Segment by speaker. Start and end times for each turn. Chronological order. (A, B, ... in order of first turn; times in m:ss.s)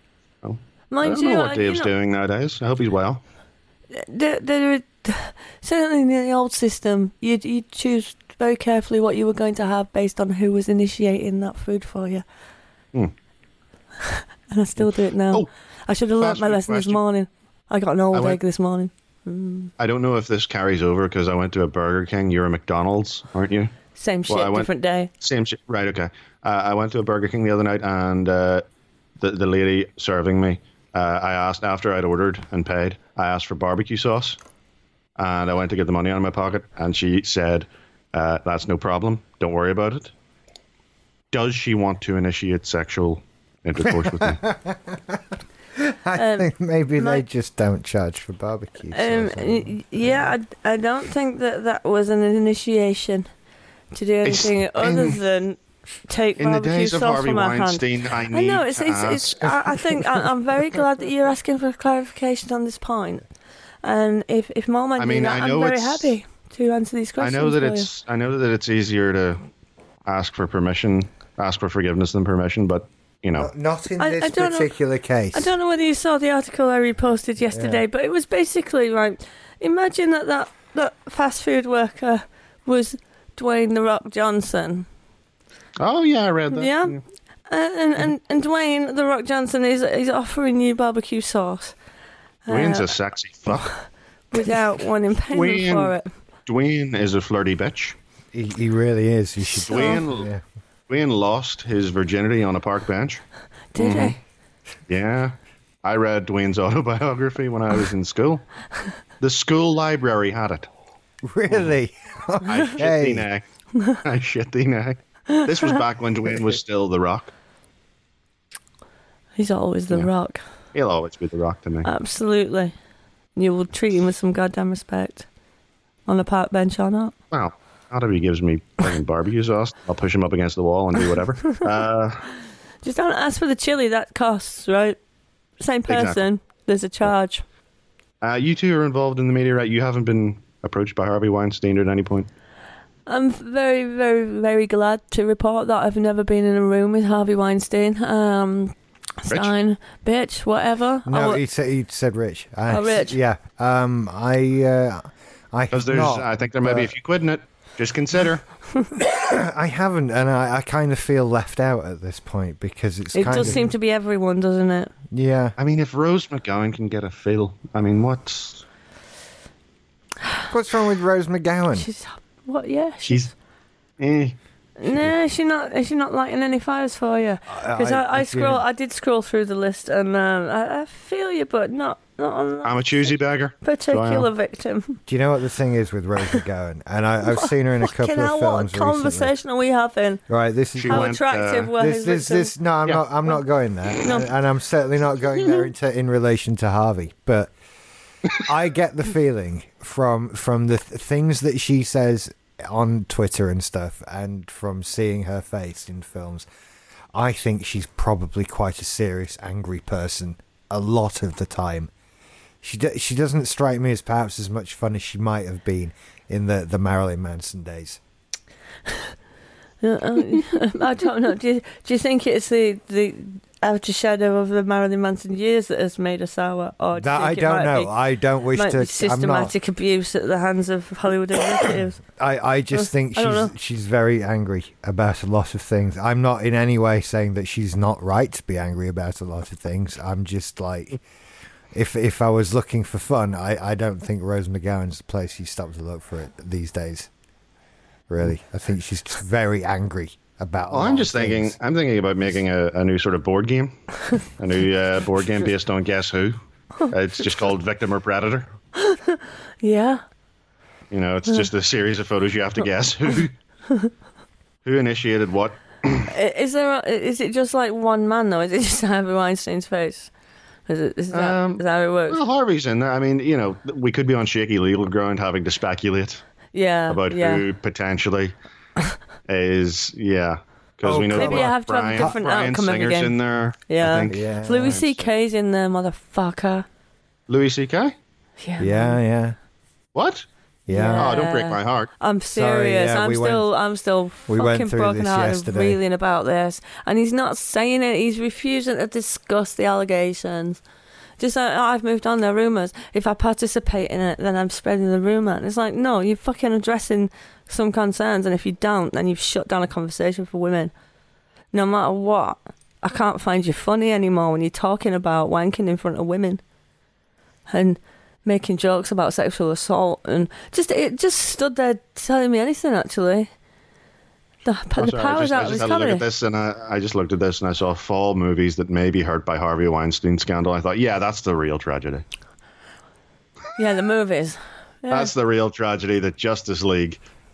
0:00.4-0:03.2 A
0:00.9-0:01.9 B
0:03.9-0:12.2 B
0:14.0-0:19.7 B
0:16.2-0:17.0 A
0:18.1-0:18.4 A
0:19.8-0:23.7 A
0:24.0-0:25.1 B
0:24.3-0:28.6 A
0:29.2-0:34.4 A
0:35.2-0:40.1 A
0:41.3-0:44.4 A
0:43.8-0:45.2 C
0:45.8-0:49.8 C
0:46.2-0:47.2 B
0:48.9-0:53.3 B
0:53.9-1:03.2 B
0:54.2-0:55.2 A
0:56.4-1:00.1 A
1:03.8-1:07.9 B
1:05.0-1:06.2 A
1:07.2-1:09.4 A
1:10.0-1:13.5 A
1:13.4-1:15.6 C
1:14.0-1:14.7 B
1:15.3-1:24.9 B
1:17.5-1:17.8 C
1:25.8-1:27.0 A
1:26.5-1:27.0 B
1:27.5-1:31.8 B
1:32.5-1:32.9 B
1:32.5-1:33.8 A
1:34.3-1:36.1 B
1:35.3-1:35.9 A
1:36.5-1:38.0 A
1:38.3-1:40.4 C
1:39.6-1:40.3 A
1:39.6-1:40.0 B
1:40.9-1:43.2 A
1:43.7-1:44.2 B
1:43.8-1:44.2 A
1:44.9-1:48.5 A
1:49.2-1:50.7 A
1:51.2-1:53.3 C
1:52.4-1:53.4 A
1:54.0-1:57.3 A
1:59.4-2:00.4 B
2:00.7-2:01.9 A
2:01.8-2:02.7 B
2:03.4-2:05.3 B
2:06.1-2:07.1 B
2:07.3-2:12.3 A
2:12.8-2:15.0 B
2:15.6-2:17.4 B
2:15.9-2:16.2 A
2:18.2-2:22.3 A
2:23.1-2:31.4 B
2:31.1-2:36.9 C
2:32.7-2:33.2 B
2:35.7-2:38.4 A
2:39.0-2:43.7 C
2:43.1-2:44.9 B
2:45.1-2:45.6 C
2:45.6-2:48.6 A
2:50.5-2:51.9 C
2:51.8-2:53.3 B
2:53.0-2:53.3 A
2:54.0-2:54.4 A
2:54.8-3:05.0 B
2:57.5-2:58.6 C
3:02.6-3:04.3 A
3:05.1-3:09.3 C
3:07.3-3:10.2 B
3:10.3-3:11.2 C
3:10.8-3:11.7 A
3:10.9-3:12.5 B
3:11.7-3:17.5 C
3:14.0-3:14.3 B
3:18.4-3:26.5 C
3:27.1-3:31.9 C
3:32.6-3:38.0 C
3:39.8-3:47.9 B
3:47.0-3:49.5 C
3:48.5-3:52.0 B
3:52.1-4:01.0 C
3:52.7-3:53.5 B
4:01.7-4:07.1 C
4:08.1-4:11.6 C
4:10.7-4:18.5 A
4:18.8-4:20.0 B
4:20.9-4:23.3 A
4:24.6-4:26.1 A
4:26.1-4:30.1 B
4:30.7-4:32.2 B
4:31.1-4:36.2 A
4:36.5-4:37.4 B
4:36.9-4:38.4 A
4:39.3-4:44.8 A
4:40.8-4:42.2 C
4:41.1-4:43.2 B
4:43.7-4:46.7 B
4:44.1-4:45.1 C
4:47.3-4:48.0 A
4:48.4-4:49.0 B
4:48.6-4:49.4 C
4:50.0-4:50.3 A
4:50.7-4:51.2 C
4:50.7-5:00.6 B
4:51.0-4:51.9 A
4:52.3-4:53.5 C
4:54.3-4:55.8 C
5:01.2-5:10.7 B
5:11.5-5:16.4 B
5:17.5-5:23.3 B
5:24.4-5:26.0 B
5:24.8-5:32.0 A
5:33.6-5:35.1 B
5:34.9-5:37.0 A